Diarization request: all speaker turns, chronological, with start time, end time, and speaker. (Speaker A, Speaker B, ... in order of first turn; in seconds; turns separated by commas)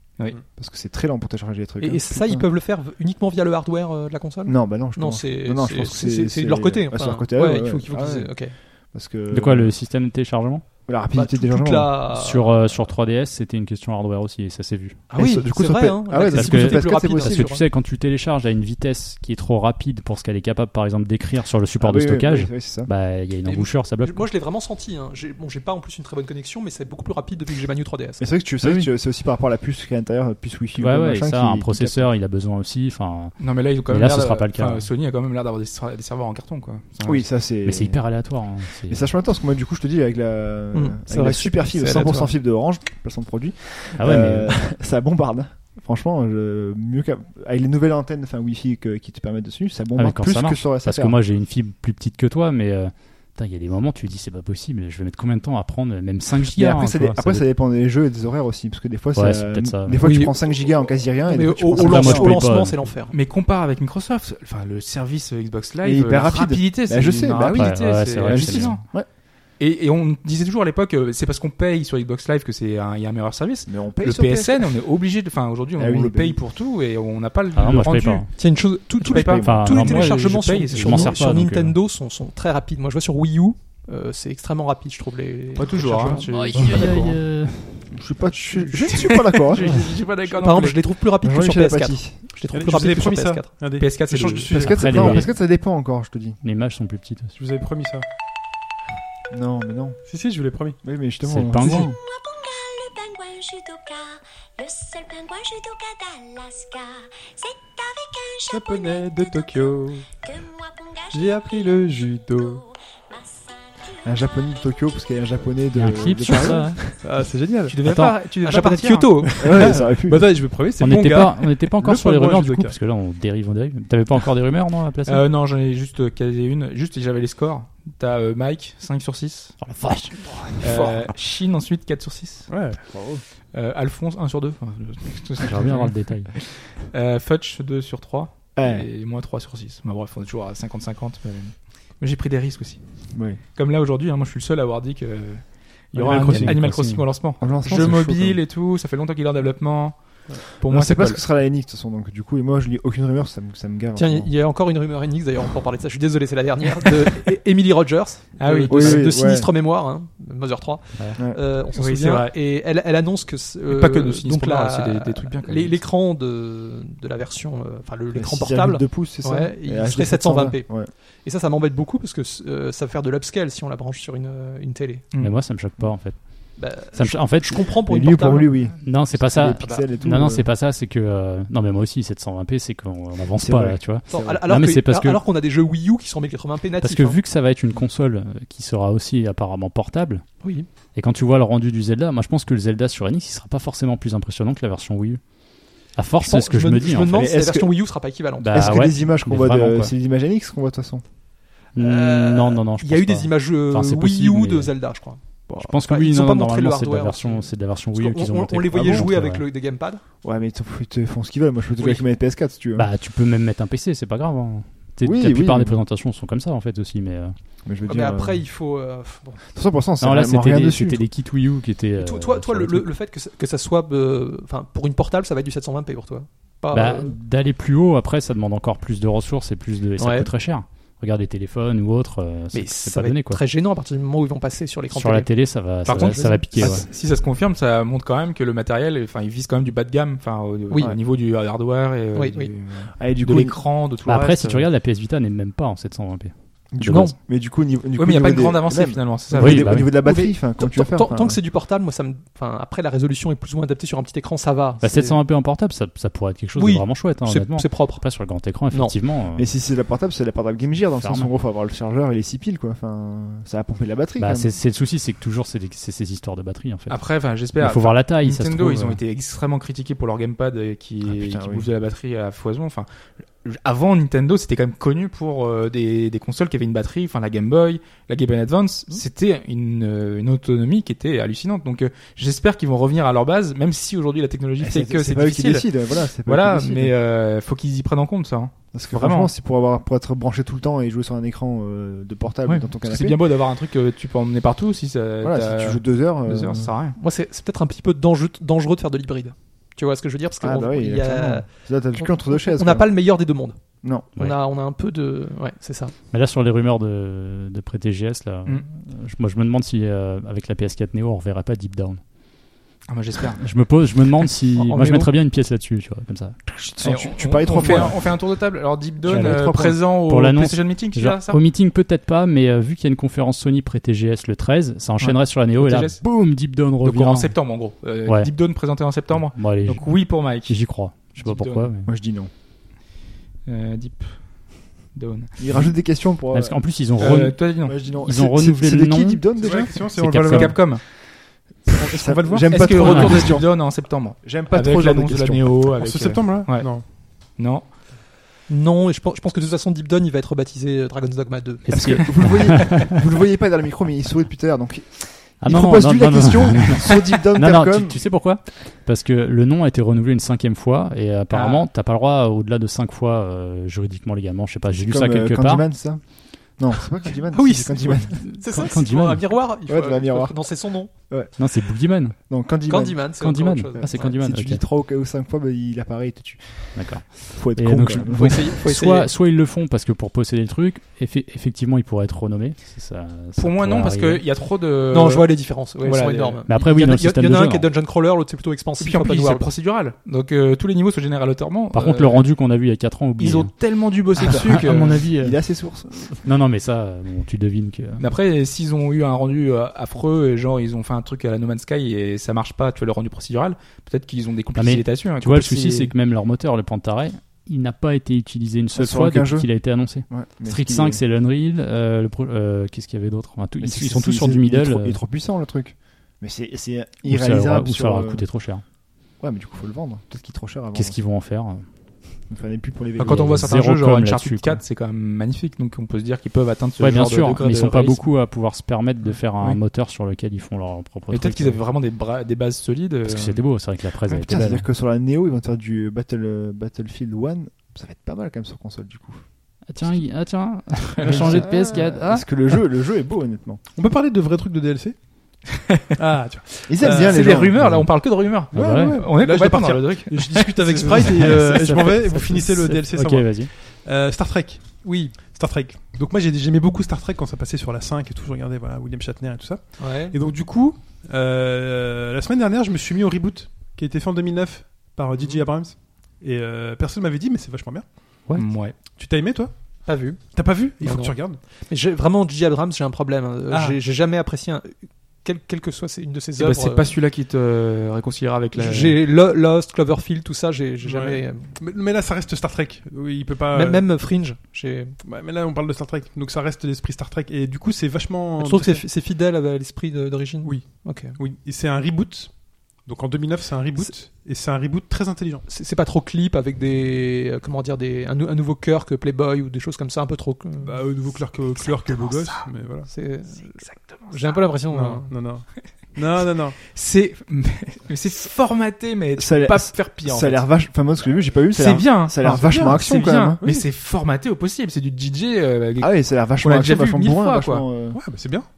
Speaker A: 0.5-2.5, Speaker B: 1.8-8.5, Speaker A: 4.5-9.8, Speaker C: 9.3-10.7, Speaker A: 10.8-12.0, Speaker B: 11.1-12.6, Speaker C: 12.1-15.0, Speaker B: 15.1-17.6, Speaker A: 15.1-17.5, Speaker C: 16.1-24.3, Speaker A: 21.8-22.9, Speaker B: 23.4-28.3, Speaker A: 28.2-32.1, Speaker C: 28.6-28.9, Speaker C: 30.8-34.9, Speaker D: 33.4-37.3, Speaker A: 37.0-51.2, Speaker C: 37.6-39.0, Speaker B: 40.7-42.3, Speaker C: 44.0-44.7, Speaker C: 50.0-57.5, Speaker A: 56.4-62.4, Speaker C: 59.1-60.2, Speaker B: 60.0-63.1, Speaker C: 61.7-62.9, Speaker D: 63.1-78.3, Speaker A: 65.8-69.1, Speaker C: 67.5-68.9, Speaker A: 73.7-74.8, Speaker A: 75.8-76.4, Speaker C: 77.5-78.3, Speaker B: 78.3-86.2, Speaker D: 79.0-81.2, Speaker C: 79.4-81.8, Speaker D: 85.6-87.2, Speaker E: 85.7-86.2, Speaker C: 86.3-88.0, Speaker A: 86.5-87.0, Speaker A: 87.9-89.8, Speaker D: 88.6-90.8, Speaker B: 90.3-93.5, Speaker A: 91.2-92.2, Speaker E: 92.5-95.2, Speaker D: 93.8-94.5, Speaker A: 94.5-96.4, Speaker C: 94.6-95.3, Speaker C: 96.4-97.3, Speaker E: 97.4-98.0, Speaker A: 99.3-100.0, Speaker E: 100.1-100.8, Speaker A: 100.8-101.9, Speaker C: 101.2-102.0, Speaker F: 101.7-114.6, Speaker E: 108.5-110.1, Speaker E: 111.1-112.6, Speaker A: 114.0-117.0, Speaker C: 115.7-117.0, Speaker E: 117.0-117.8, Speaker D: 117.7-119.5, Speaker C: 117.8-118.2, Speaker B: 118.4-119.5, Speaker A: 119.4-120.3, Speaker E: 119.4-122.8, Speaker C: 120.8-125.2, Speaker D: 125.1-129.6, Speaker C: 129.6-131.1, Speaker D: 130.6-132.5, Speaker E: 132.5-132.8, Speaker A: 132.9-133.2, Speaker D: 133.5-151.2, Speaker C: 135.4-136.3, Speaker A: 138.6-138.9, Speaker A: 143.1-143.4, Speaker C: 146.0-147.9, Speaker A: 146.0-146.8, Speaker A: 147.4-148.4, Speaker A: 150.6-154.3, Speaker B: 154.0-175.0, Speaker D: 158.4-159.2, Speaker A: 158.7-159.5, Speaker A: 161.2-161.4, Speaker D: 161.7-162.3, Speaker D: 163.7-165.8, Speaker A: 168.1-170.9, Speaker D: 175.1-175.4, Speaker C: 175.2-177.8, Speaker B: 176.6-178.6, Speaker A: 177.7-180.5, Speaker C: 178.8-185.2, Speaker A: 183.4-184.4, Speaker B: 184.1-187.2, Speaker C: 186.8-190.2, Speaker B: 190.4-190.7, Speaker C: 190.9-197.3, Speaker B: 196.2-199.0, Speaker A: 197.1-197.7, Speaker C: 198.4-199.9, Speaker A: 198.5-201.0, Speaker C: 201.7-204.7, Speaker B: 201.8-205.2, Speaker A: 205.5-205.8, Speaker C: 205.6-209.4, Speaker B: 205.9-210.0, Speaker A: 210.2-212.9, Speaker C: 212.8-217.4, Speaker A: 215.0-215.8, Speaker A: 217.7-218.4, Speaker B: 217.9-219.4, Speaker A: 219.5-221.1, Speaker C: 220.0-222.9, Speaker B: 222.0-227.2, Speaker C: 226.7-233.4, Speaker B: 230.0-230.3, Speaker B: 232.5-235.3, Speaker C: 234.9-236.9, Speaker D: 235.8-244.7, Speaker B: 236.2-236.8, Speaker B: 242.2-242.5, Speaker A: 242.9-243.6, Speaker C: 244.0-247.1, Speaker A: 246.7-251.4, Speaker B: 246.9-247.1, Speaker D: 248.0-249.8, Speaker C: 249.3-249.9, Speaker B: 249.7-255.2, Speaker C: 254.8-259.5, Speaker B: 256.6-258.1, Speaker B: 258.7-259.0, Speaker A: 259.4-264.5, Speaker C: 261.0-261.3, Speaker C: 264.2-267.0, Speaker D: 266.9-285.7, Speaker C: 267.6-269.0, Speaker A: 271.1-271.7, Speaker A: 284.6-286.9, Speaker D: 286.2-289.3, Speaker A: 288.7-293.2, Speaker D: 292.5-297.0, Speaker A: 295.2-296.7, Speaker B: 297.0-305.9, Speaker A: 300.4-302.9, Speaker A: 303.8-304.1, Speaker C: 306.1-312.0, Speaker D: 312.9-313.4, Speaker C: 313.4-316.4, Speaker B: 314.6-315.1, Speaker A: 316.5-318.1, Speaker D: 316.8-321.4, Speaker C: 317.6-318.0, Speaker A: 319.1-319.8, Speaker C: 319.1-327.4, Speaker D: 325.0-326.1, Speaker D: 326.8-331.7, Speaker C: 328.1-328.3, Speaker C: 329.1-331.9, Speaker A: 331.9-332.3, Speaker D: 333.5-335.7, Speaker A: 335.4-336.6, Speaker C: 336.3-340.8, Speaker D: 337.0-337.9, Speaker A: 337.6-339.9, Speaker E: 339.4-340.6, Speaker D: 340.1-340.9, Speaker E: 341.8-343.3, Speaker A: 341.8-345.8, Speaker D: 342.5-347.7, Speaker C: 342.8-343.3, Speaker E: 345.8-346.8, Speaker B: 348.5-352.0, Speaker C: 351.7-353.0, Speaker A: 351.8-358.0, Speaker C: 355.4-365.7, Speaker D: 361.3-361.6, Speaker A: 364.8-368.3, Speaker B: 367.3-370.9, Speaker C: 368.2-369.5, Speaker A: 369.7-371.5, Speaker C: 371.4-372.2, Speaker A: 372.2-373.1, Speaker B: 372.7-374.1, Speaker C: 373.2-374.6, Speaker A: 373.8-378.4, Speaker C: 376.8-384.2, Speaker B: 378.1-379.1, Speaker D: 383.4-386.4, Speaker B: 384.9-389.5, Speaker C: 386.5-387.7, Speaker D: 388.8-392.3, Speaker C: 391.7-393.5, Speaker D: 393.2-395.1, Speaker C: 394.2-395.4, Speaker A: 394.3-396.2, Speaker C: 396.1-398.1, Speaker D: 398.0-405.9, Speaker C: 404.6-415.0, Speaker A: 408.8-411.0, Speaker A: 413.6-418.3, Speaker C: 417.0-418.6, Speaker A: 419.2-421.0, Speaker C: 420.7-421.7, Speaker A: 422.3-423.6, Speaker D: 423.0-428.0, Speaker C: 423.0-424.6, Speaker C: 426.8-431.6, Speaker D: 431.1-433.4, Speaker C: 433.1-434.7, Speaker A: 434.2-439.2, Speaker C: 439.7-442.3, Speaker D: 441.0-441.5, Speaker A: 441.1-443.6, Speaker E: 443.8-445.0, Speaker E: 446.0-447.5, Speaker A: 446.7-447.6, Speaker D: 446.8-451.7, Speaker C: 447.5-447.9, Speaker C: 448.5-449.1, Speaker E: 448.5-468.2, Speaker C: 451.1-453.5, Speaker B: 454.8-455.1, Speaker B: 459.8-460.1, Speaker C: 468.3-468.6, Speaker D: 468.4-468.8, Speaker E: 468.9-469.8, Speaker B: 469.9-476.9, Speaker E: 470.3-471.4, Speaker E: 473.5-473.8, Speaker D: 476.4-479.0, Speaker B: 478.6-481.5, Speaker E: 480.8-483.9, Speaker B: 483.5-485.0, Speaker E: 485.0-488.9, Speaker B: 488.4-491.2, Speaker E: 490.4-495.4, Speaker B: 495.5-500.8, Speaker E: 500.6-502.9, Speaker B: 502.9-505.1, Speaker D: 503.6-504.0, Speaker E: 504.7-506.6, Speaker D: 506.7-510.5, Speaker A: 509.2-513.4, Speaker D: 511.5-517.7, Speaker E: 512.2-512.8, Speaker E: 513.4-513.7, Speaker A: 515.8-518.0, Speaker E: 517.9-518.5